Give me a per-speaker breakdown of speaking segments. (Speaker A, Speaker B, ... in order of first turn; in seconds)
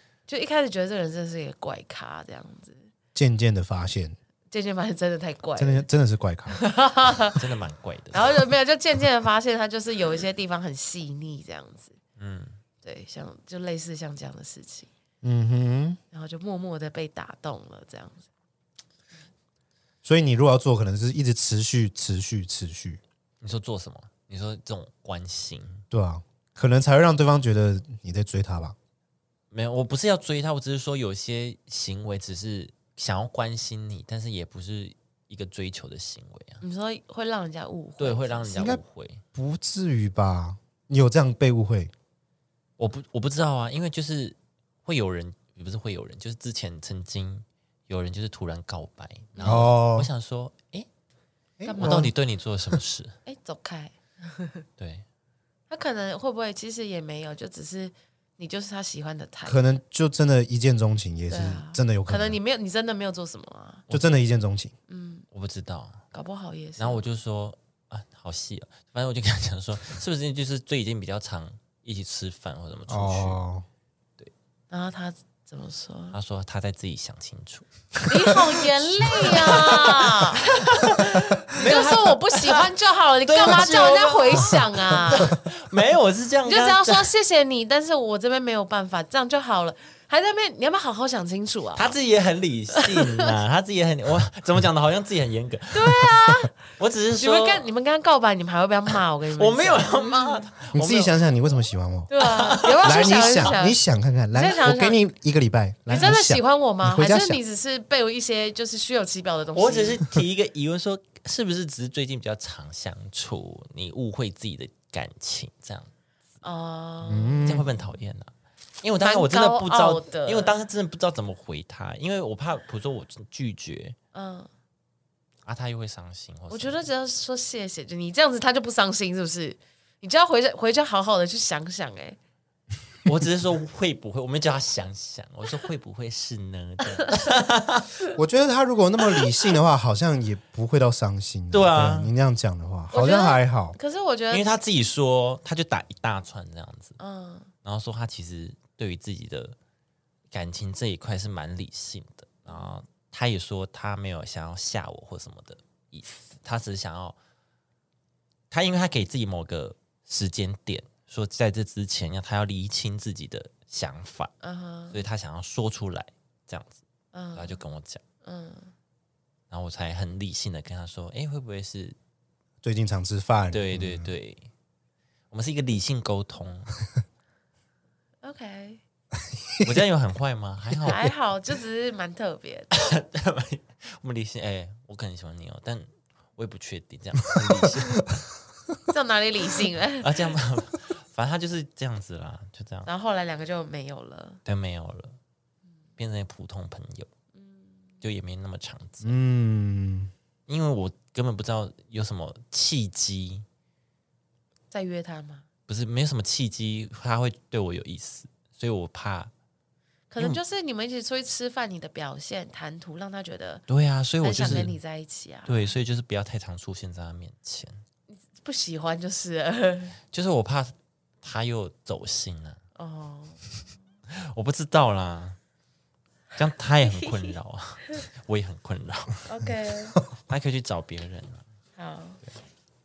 Speaker A: 0.3-2.9, 4.5-5.9, 6.5-7.4, 8.1-12.0, 12.8-14.9, 16.1-18.2, 36.6-38.8, 49.4-49.7, 51.6-52.1, 53.3-54.6, 55.7-59.6, 61.3-63.9, 64.9-65.3, 66.1-67.0, 74.7-76.2, 78.1-85.4, 86.5-92.0, 92.8-93.3, 95.7-96.5, 97.2-100.5, 102.1-103.8, 104.3-105.0, 105.9-110.1, 116.4-117.6, 119.0-120.5, 124.1-124.5, 126.5-132.2, 142.9-144.5, 147.0-147.5, 152.5-152.8, 164.4-165.0, 167.1-167.6, 168.2-168.7, 178.2-178.8, 180.8-182.7, 188.9-190.1, 192.9-194.4, 197.4-197.7, 204.7-205.5, 210.1-213.7, 214.2-215.7, 218.1-220.0, 222.8-223.4, 226.9-227.3, 229.3-230.0, 231.8-232.2
Speaker B: 3.1-4.2, 5.6-6.6, 15.2-16.0, 20.0-23.0, 25.9-28.8, 39.4-41.9, 49.4-50.1, 51.6-52.1, 59.5-62.4, 63.9-64.7, 72.9-73.7, 100.7-102.1, 102.8-107.4, 117.0-117.7, 138.2-143.8, 172.6-174.1, 187.5-187.8, 199.0-200.1
Speaker C: 7.4-8.4, 12.2-12.6, 23.4-25.8, 29.5-36.6, 38.0-39.2, 42.8-50.9, 51.8-53.1, 54.8-55.0, 63.9-64.2, 65.3-66.0, 66.8-73.4, 76.1-82.6, 83.3-87.1, 91.8-96.0, 96.8-97.7, 99.4-101.2, 102.2-103.5, 109.5-115.9, 117.5-124.0, 125.5-126.8, 133.1-137.9, 141.5-142.1, 144.3-147.0, 147.6-149.6, 150.3-157.2, 158.5-164.3, 164.9-166.8, 167.3-168.0, 169.5-172.0, 173.5-174.5, 175.3-176.7, 179.6-181.1, 182.7-188.2, 190.0-192.9, 194.4-195.2, 196.0-197.1, 198.0-199.2, 200.5-203.5, 205.7-209.3, 213.7-214.8, 215.5-217.8, 220.1-222.6, 224.1-225.4, 226.3-229.2, 230.3-231.4